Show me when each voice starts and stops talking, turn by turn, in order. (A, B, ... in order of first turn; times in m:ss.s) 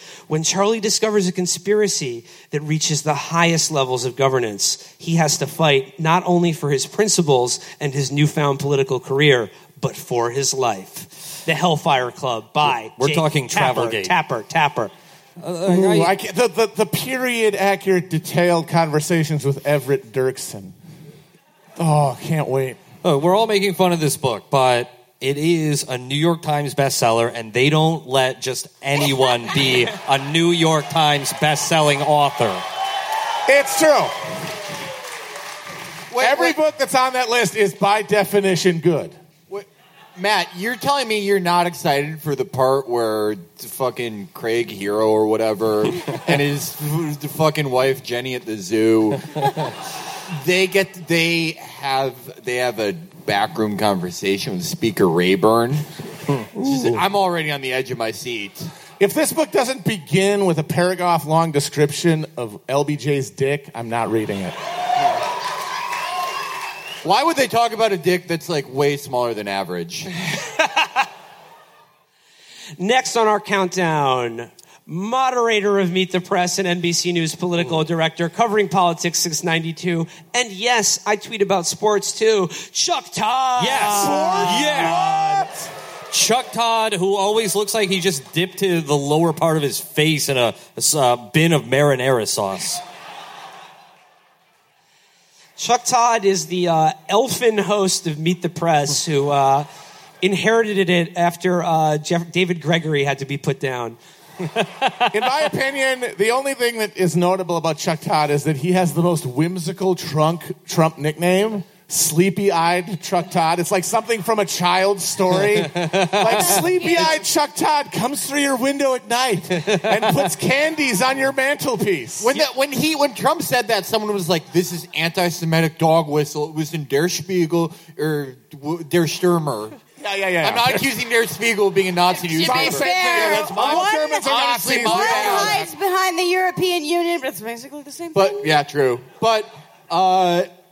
0:00.3-0:14.9 A
0:13.0-0:14.1 B
0:15.4-0:16.1 B
0:15.7-0:20.8 C
0:21.8-0:22.8 C
0:23.0-0:32.6 B
0:33.5-0:34.2 C
0:36.1-0:36.6 D
0:36.2-0:39.2 C
0:39.5-0:49.4 D
0:50.3-0:55.9 D
0:56.6-0:58.7 D
0:59.0-1:04.6 C
1:07.0-1:10.1 D
1:12.8-1:25.0 A
1:23.6-1:25.5 B
1:23.7-1:25.7 C
1:26.1-1:32.8 B
1:35.6-1:39.7 A
1:40.2-1:44.0 A
1:44.6-1:45.1 B
1:45.1-2:02.4 C
1:55.6-1:56.6 B
1:56.2-1:57.2 E
1:59.6-1:59.9 B
2:02.2-2:09.8 D
2:10.0-2:10.8 C
2:10.4-2:15.7 D
2:12.2-2:18.6 E
2:12.4-2:15.7 C
2:18.1-2:20.5 D